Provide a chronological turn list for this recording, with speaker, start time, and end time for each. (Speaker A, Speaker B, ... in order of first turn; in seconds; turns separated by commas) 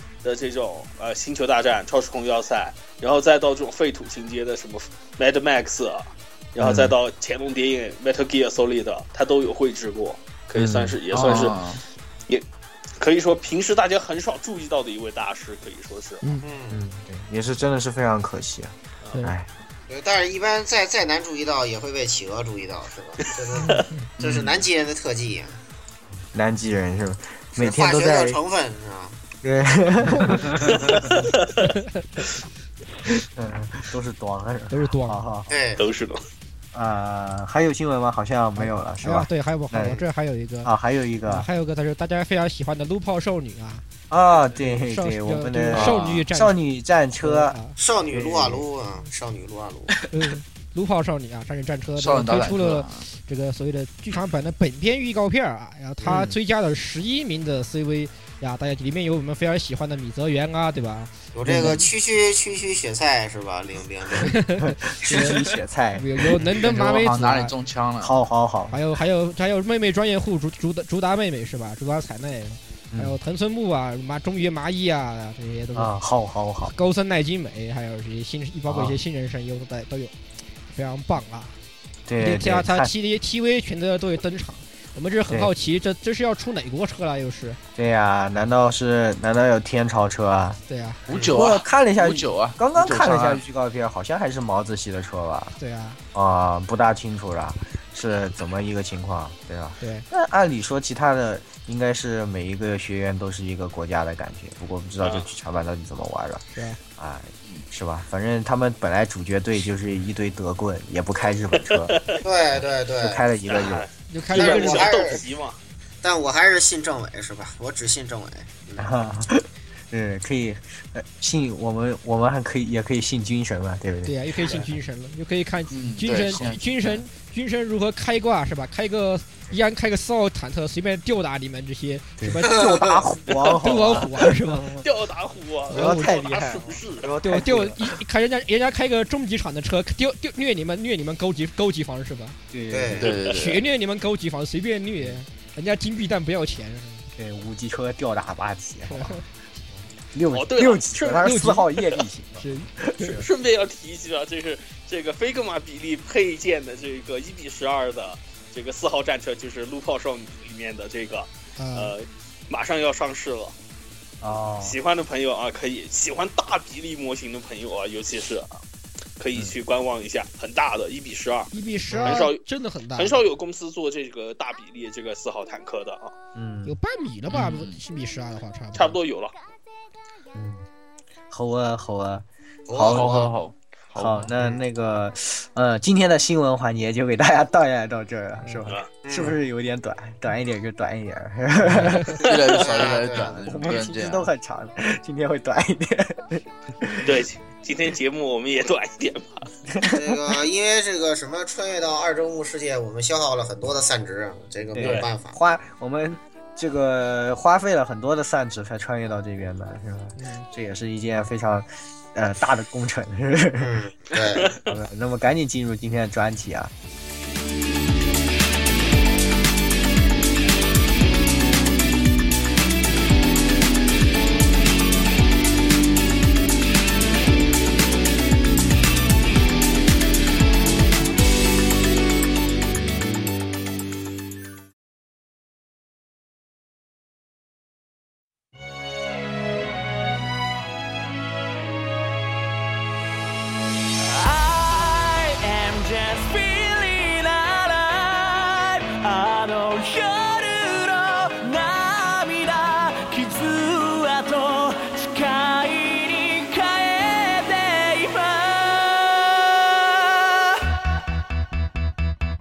Speaker A: 0.2-11.6, Speaker B: 6.6-6.9, Speaker B: 10.5-11.2, Speaker C: 11.1-11.8, Speaker A: 13.0-16.2, Speaker D: 16.4-16.8, Speaker B: 16.7-19.5, Speaker D: 19.9-25.6, Speaker E: 23.6-23.9, Speaker C: 24.2-24.6, Speaker B: 26.3-28.4, Speaker D: 27.6-29.2, Speaker B: 29.4-31.1, Speaker E: 31.6-32.2, Speaker B: 33.1-35.5, Speaker E: 34.7-35.2, Speaker D: 35.5-35.8, Speaker A: 35.8-36.2, Speaker B: 36.7-40.0, Speaker E: 38.6-40.7, Speaker B: 40.6-41.5, Speaker E: 41.3-43.8, Speaker B: 44.1-47.6, Speaker E: 44.6-46.6, Speaker C: 45.7-46.2, Speaker E: 47.2-47.8, Speaker D: 47.8-50.0, Speaker B: 48.1-48.6, Speaker E: 50.1-61.8, Speaker C: 52.0-53.0, Speaker B: 56.0-56.4, Speaker D: 61.3-64.3, Speaker B: 61.5-61.8, Speaker E: 64.3-67.6, Speaker B: 64.6-66.4, Speaker C: 66.5-68.2, Speaker B: 68.0-68.8, Speaker E: 68.7-75.9, Speaker B: 75.7-76.7, Speaker E: 76.6-80.1, Speaker B: 78.7-79.0, Speaker E: 80.7-81.5, Speaker B: 82.1-82.9, Speaker E: 82.2-87.6, Speaker B: 87.8-90.6, Speaker E: 90.7-91.0, Speaker C: 91.1-93.4, Speaker B: 91.3-95.5, Speaker E: 95.6-96.0, Speaker B: 96.1-106.4, Speaker E: 99.8-100.0, Speaker A: 105.0-105.3, Speaker B: 107.0-112.1, Speaker A: 111.9-112.2, Speaker D: 112.2-113.2, Speaker B: 113.0-113.9, Speaker A: 113.5-115.6, Speaker E: 114.1-115.1, Speaker D: 114.3-115.2, Speaker D: 116.0-118.9, Speaker B: 118.8-124.6, Speaker E: 124.0-132.7, Speaker C: 125.7-127.0, Speaker B: 132.2-134.9, Speaker D: 132.4-133.0, Speaker E: 133.6-134.7, Speaker A: 134.8-137.1, Speaker B: 135.7-138.0, Speaker E: 135.7-136.2, Speaker E: 137.2-142.4, Speaker B: 142.5-143.1, Speaker D: 142.7-143.1, Speaker A: 143.0-143.3, Speaker C: 143.0-143.6, Speaker E: 143.3-147.1, Speaker B: 147.2-149.2, Speaker E: 148.8-149.2, Speaker B: 150.1-153.2, Speaker A: 150.3-151.3, Speaker E: 151.1-151.7, Speaker E: 152.4-152.7, Speaker A: 153.0-163.5, Speaker E: 161.6-161.9, Speaker B: 164.2-164.8, Speaker A: 164.6-168.6, Speaker A: 169.2-171.5, Speaker E: 171.5-173.2, Speaker B: 171.9-172.2, Speaker A: 172.0-172.4, Speaker A: 172.9-176.1, Speaker B: 176.3-176.8, Speaker E: 176.6-179.0, Speaker C: 177.3-177.8, Speaker A: 178.7-179.3, Speaker B: 180.3-180.6, Speaker B: 181.3-183.3, Speaker D: 182.7-183.3, Speaker C: 182.9-184.3, Speaker B: 183.9-192.2, Speaker D: 189.0-189.4, Speaker C: 192.2-194.3, Speaker A: 192.2-192.6, Speaker D: 192.5-193.8, Speaker B: 193.4-197.2, Speaker A: 197.0-199.5, Speaker B: 199.7-200.4, Speaker D: 199.8-205.4, Speaker B: 204.7-213.7, Speaker A: 204.8-205.1, Speaker E: 210.2-210.5, Speaker D: 213.6-214.6, Speaker A: 214.2-214.7, Speaker B: 214.6-216.7, Speaker F: 244.1-260.6